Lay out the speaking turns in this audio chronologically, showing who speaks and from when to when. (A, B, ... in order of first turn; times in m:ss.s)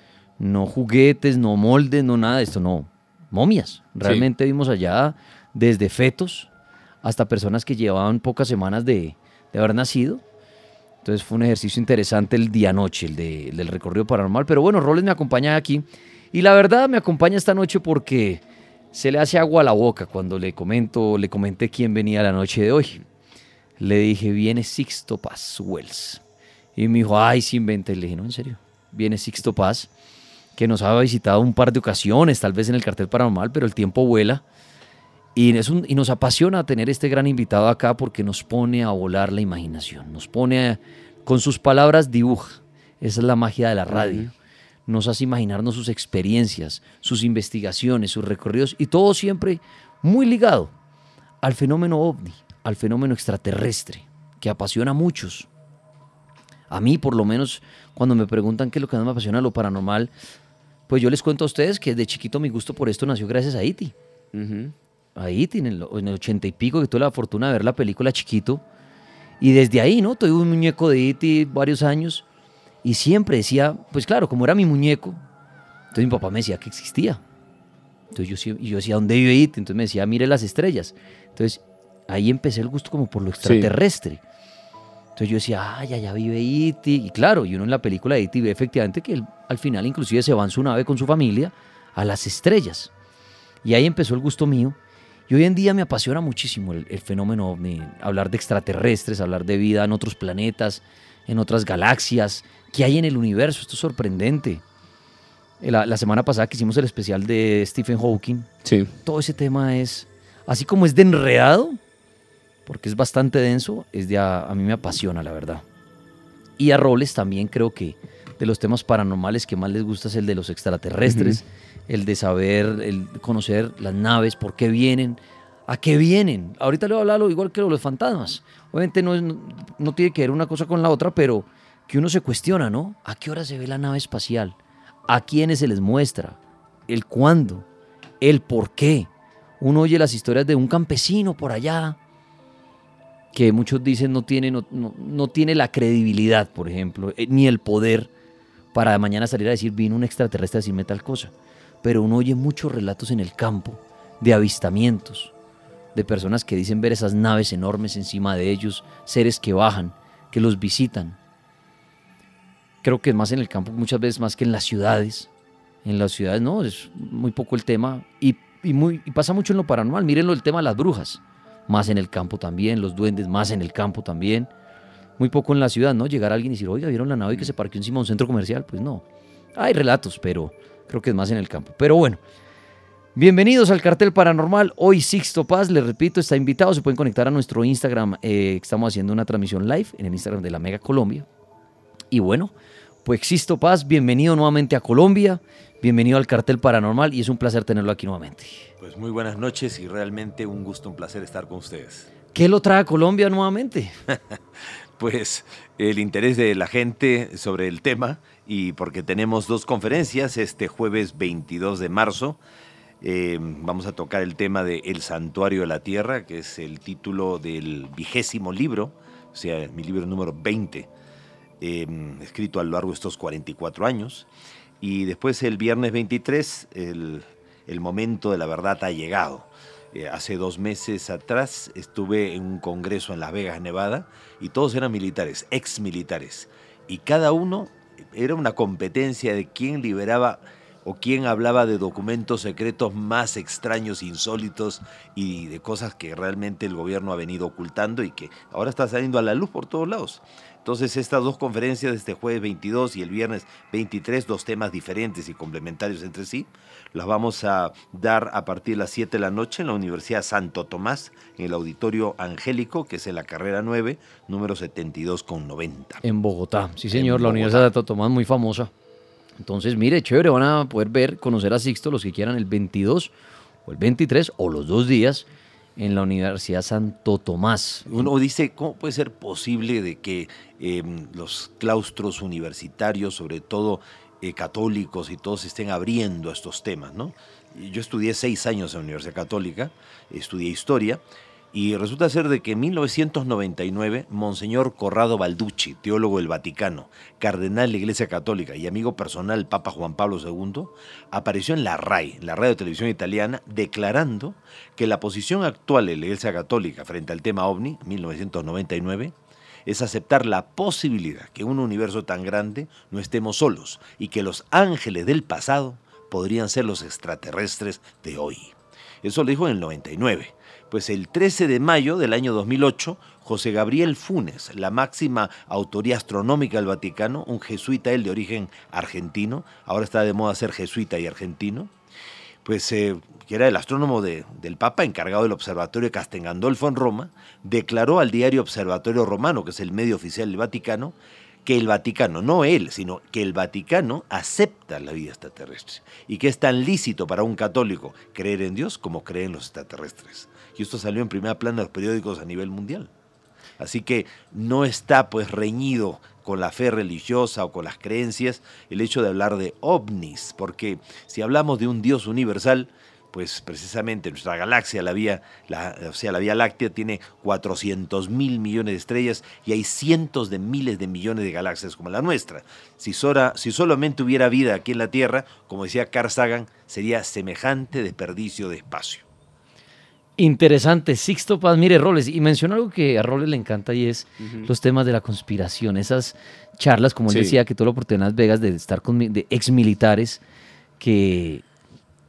0:00.4-0:06.5 A
0:07.0-0:10.2 A
0:11.0-0:18.4 A
0:18.9-0:23.0 A
0:23.8-0:26.2 A
0:26.8-0:29.9 A
0:30.6-0:34.4 A
0:35.4-0:44.3 A
0:43.9-0:44.3 B
0:44.9-0:50.7 A
0:51.4-0:55.5 A
0:56.7-1:00.1 A
1:00.9-1:03.9 A
1:04.3-1:04.7 B
1:05.2-1:08.6 A
1:09.4-1:12.2 A
1:12.8-1:15.2 A
1:15.9-1:17.2 A
1:18.1-1:24.2 A
1:23.4-1:23.7 B
1:25.2-1:32.9 A
1:33.6-1:34.8 A
1:35.3-1:44.6 A
1:45.6-1:48.5 A
1:48.6-1:48.9 B
1:49.0-1:51.8 A
1:52.7-1:55.6 A
1:56.6-2:14.6 A
2:01.1-2:01.4 B
2:15.1-2:17.7 A
2:18.2-2:19.1 A
2:19.6-2:22.0 A
2:23.3-2:28.1 A
2:28.7-2:31.3 A
2:31.8-2:35.3 A
2:36.0-2:41.2 A
2:42.8-2:45.3 A
2:45.8-2:54.5 A
2:55.2-2:59.0 A
2:59.6-3:02.2 A
3:03.2-3:11.3 A
3:12.1-3:12.5 A
3:13.0-3:18.7 A
3:18.8-3:22.1 C
3:22.3-3:24.0 A
3:25.0-3:32.4 C
3:33.0-3:40.9 C
3:41.6-3:44.3 C
3:44.8-4:26.0 C
4:26.0-4:28.7 A
4:26.9-4:27.7 C
4:29.4-4:33.1 A
4:33.7-4:38.1 A
4:37.9-5:09.2 C
5:09.7-5:31.7 C
5:32.4-5:52.9 C
5:53.6-6:19.0 C
6:20.2-6:30.2 A
6:27.1-6:27.4 B
6:30.8-6:31.4 A